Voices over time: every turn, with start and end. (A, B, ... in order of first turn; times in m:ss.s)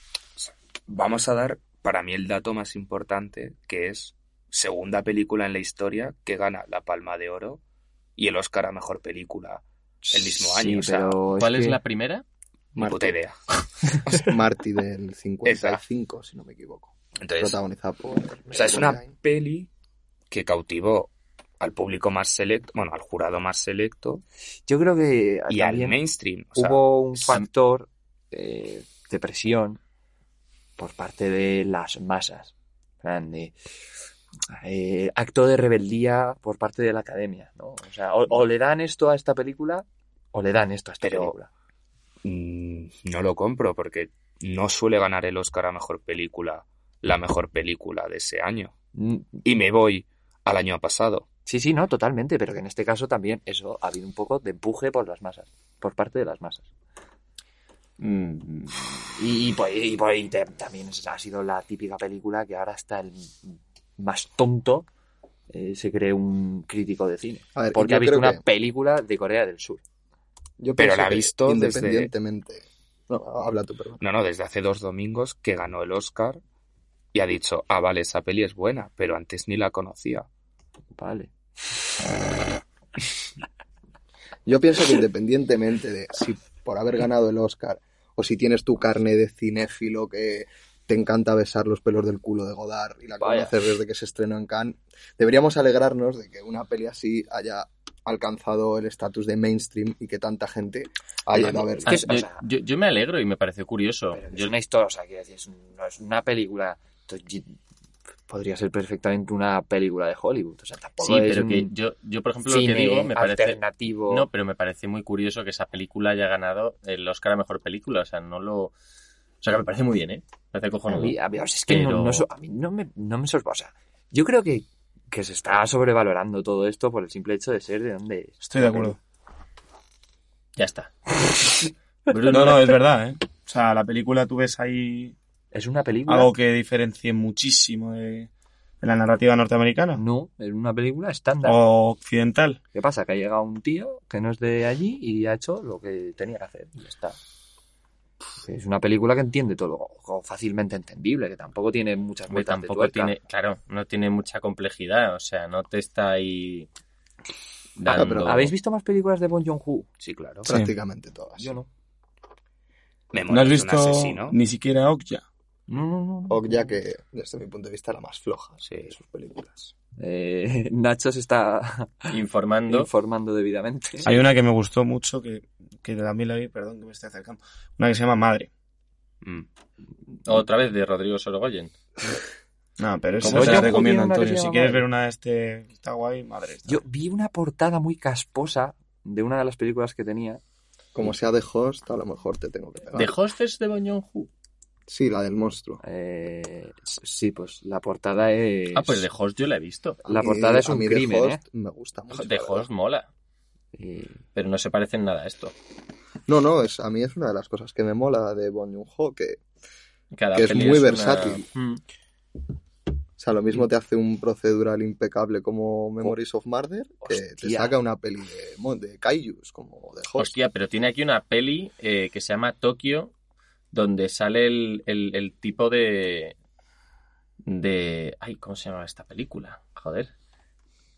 0:00.4-0:07.6 A
0:08.2-0:11.2 A
0:10.0-0:11.8 B
0:11.4-0:12.2 C
0:12.8-0:13.1 D
0:12.8-0:13.4 A
0:14.0-0:19.1 D
0:15.4-0:15.8 A
0:17.2-0:17.6 A
0:18.5-0:19.7 A
0:20.3-0:24.2 A
0:24.6-0:26.0 B
0:25.5-0:26.8 A
0:26.5-0:29.8 B
0:30.8-0:33.6 B
0:34.5-0:41.5 B
0:41.0-0:41.3 A
0:42.2-0:48.7 A
0:49.0-0:49.3 B
0:49.4-0:51.3 A
0:51.4-0:56.7 B
0:58.0-0:58.8 C
0:59.0-1:04.9 B
1:05.5-1:09.8 B
1:07.5-1:08.4 D
1:10.6-1:14.0 D
1:10.8-1:12.1 A
1:14.0-1:16.4 A
1:17.1-1:20.3 A
1:20.9-1:21.3 B
1:24.4-1:42.1 D
1:33.2-1:33.6 B
1:41.4-1:42.4 B
1:41.5-1:44.5 C
1:44.1-1:47.6 B
1:48.3-1:51.7 B
1:51.0-1:58.7 C
1:52.4-1:54.3 B
1:59.4-2:01.2 C
2:00.9-2:08.9 B
2:01.7-2:02.2 C
2:08.4-2:09.0 E
2:10.6-2:12.8 C
2:12.3-2:15.1 E
2:15.5-2:16.3 B
2:16.1-2:18.3 E
2:18.8-2:20.0 E
2:19.9-2:21.6 B
2:21.4-2:22.6 E
2:22.7-2:27.2 B
2:28.4-2:33.2 B
2:32.3-2:36.7 C
2:37.8-2:38.5 C
2:37.8-2:38.4 D
2:38.2-2:39.9 B
2:40.0-2:40.5 A
2:40.4-2:41.6 D
2:41.4-2:41.7 B
2:43.1-2:44.4 A
2:43.3-2:45.2 E
2:45.7-2:46.7 B
2:46.3-2:49.7 D
2:48.6-2:48.9 A
2:50.0-2:54.1 B
2:52.1-2:52.9 C
2:54.0-2:58.5 E
3:00.2-3:01.7 C
3:02.8-3:06.8 E
3:03.2-3:04.8 B
3:03.2-3:03.8 C
3:06.7-3:10.4 B
3:10.9-3:13.2 D
3:12.9-3:14.3 C
3:14.9-3:15.8 D
3:15.8-3:19.1 B
3:18.7-3:20.0 C
3:20.0-3:22.7 D
3:20.1-3:21.4 B
3:22.1-3:23.1 C
3:23.7-3:24.2 B
3:24.3-3:25.5 C
3:26.3-3:29.4 D
3:30.1-3:31.8 C
3:30.3-3:31.4 D
3:33.2-3:40.3 D
3:37.0-3:37.8 B
3:40.2-3:43.1 C
3:43.7-3:46.3 C
3:47.4-3:50.1 C